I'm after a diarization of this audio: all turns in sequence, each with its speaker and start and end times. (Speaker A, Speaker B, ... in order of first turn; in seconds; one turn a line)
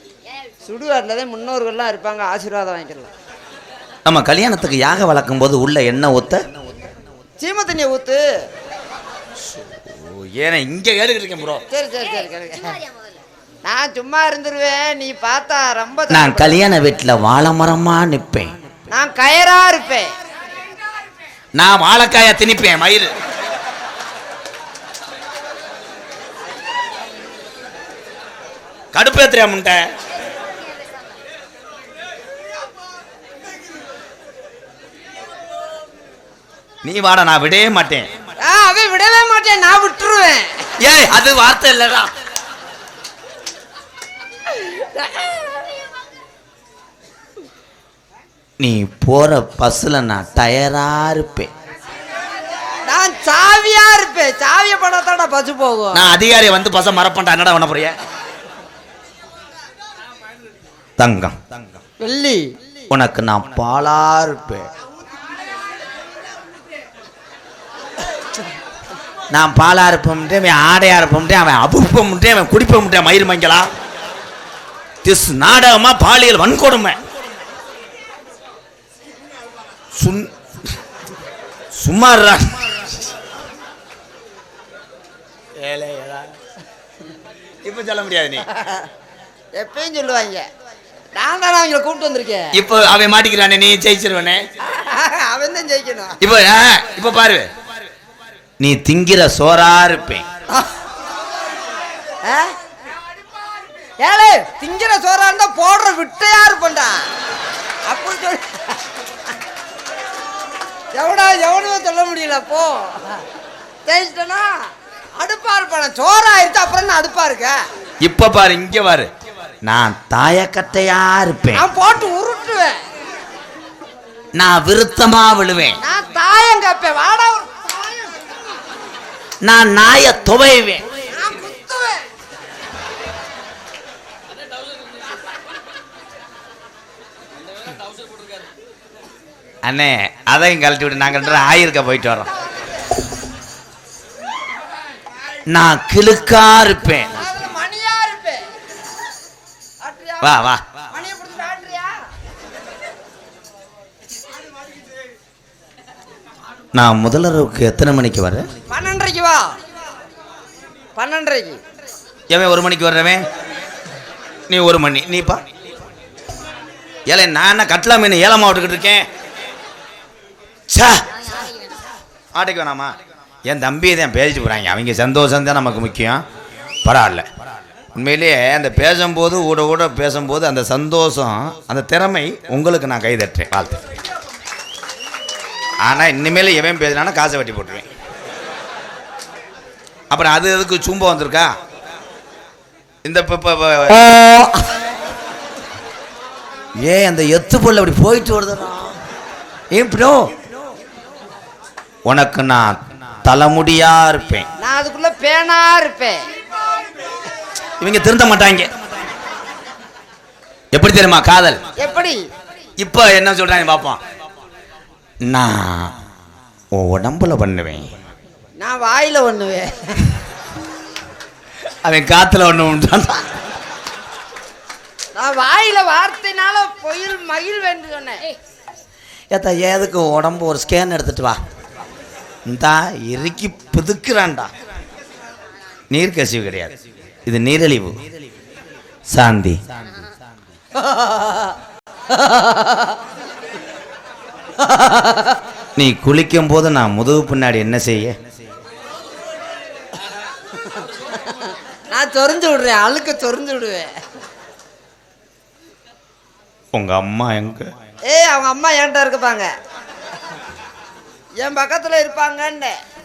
Speaker A: 0.7-3.1
Speaker B: 4.0-6.4
Speaker A: 7.4-8.2
Speaker B: 9.5-11.6
Speaker A: 11.7-12.8
Speaker A: 13.6-16.6
Speaker B: 16.1-18.6
Speaker A: 18.9-20.1
Speaker B: 21.6-23.1
Speaker B: 28.9-29.8
Speaker B: 36.8-38.1
Speaker A: 38.4-40.6
Speaker B: 40.8-42.1
Speaker A: 44.6-45.5
Speaker B: 48.6-51.5
Speaker A: 52.9-56.1
Speaker B: 55.9-57.9
Speaker B: 61.0-61.4
Speaker A: 62.0-62.5
Speaker B: 62.9-64.7
Speaker B: 69.3-73.7
Speaker B: 75.0-77.0
Speaker B: 80.0-80.3
Speaker B: 81.8-82.9
Speaker B: 85.6-86.3
Speaker B: 87.6-88.5
Speaker A: 88.6-88.8
Speaker A: 89.6-90.5
Speaker A: 91.2-92.5
Speaker B: 92.5-94.4
Speaker A: 94.7-96.2
Speaker B: 96.2-97.5
Speaker B: 98.6-100.2
Speaker A: 102.3-102.5
Speaker A: 104.0-107.0
Speaker A: 107.9-108.5
Speaker A: 110.9-113.1
Speaker A: 113.9-114.5
Speaker A: 115.2-117.6
Speaker B: 118.0-119.1
Speaker B: 119.6-121.7
Speaker A: 121.5-122.8
Speaker B: 124.3-125.8
Speaker A: 125.8-128.3
Speaker B: 129.4-130.8
Speaker A: 131.1-132.0
Speaker B: 139.6-142.3
Speaker B: 145.5-147.1
Speaker A: 147.2-148.4
Speaker A: 149.8-152.0
Speaker B: 150.2-150.6
Speaker B: 156.7-158.4
Speaker A: 158.7-159.4
Speaker A: 161.0-161.6
Speaker B: 162.3-163.2
Speaker B: 164.5-165.4
Speaker B: 167.1-169.1
Speaker B: 170.7-171.0
Speaker B: 172.3-172.9
Speaker B: 173.5-176.2
Speaker B: 176.8-177.2
Speaker B: 177.9-183.8
Speaker B: 185.8-187.9
Speaker B: 190.1-191.5
Speaker B: 193.0-194.4
Speaker B: 196.8-199.0
Speaker B: 199.7-200.3
Speaker B: 202.1-204.5
Speaker A: 204.6-206.2
Speaker B: 207.8-208.7
Speaker B: 210.7-211.6
Speaker A: 211.8-212.2
Speaker B: 212.8-214.0
Speaker B: 215.3-215.9
Speaker B: 216.7-217.9
Speaker A: 218.6-220.0
Speaker B: 221.8-223.2
Speaker A: 225.2-228.2
Speaker B: 229.3-231.4
Speaker B: 232.5-234.5
Speaker B: 235.9-236.7
Speaker B: 237.3-237.9
Speaker B: 239.1-239.6
Speaker A: 244.7-245.0
Speaker B: 245.8-248.2
Speaker A: 251.9-253.9
Speaker B: 256.7-257.7
Speaker A: 258.1-259.5
Speaker A: 261.4-262.7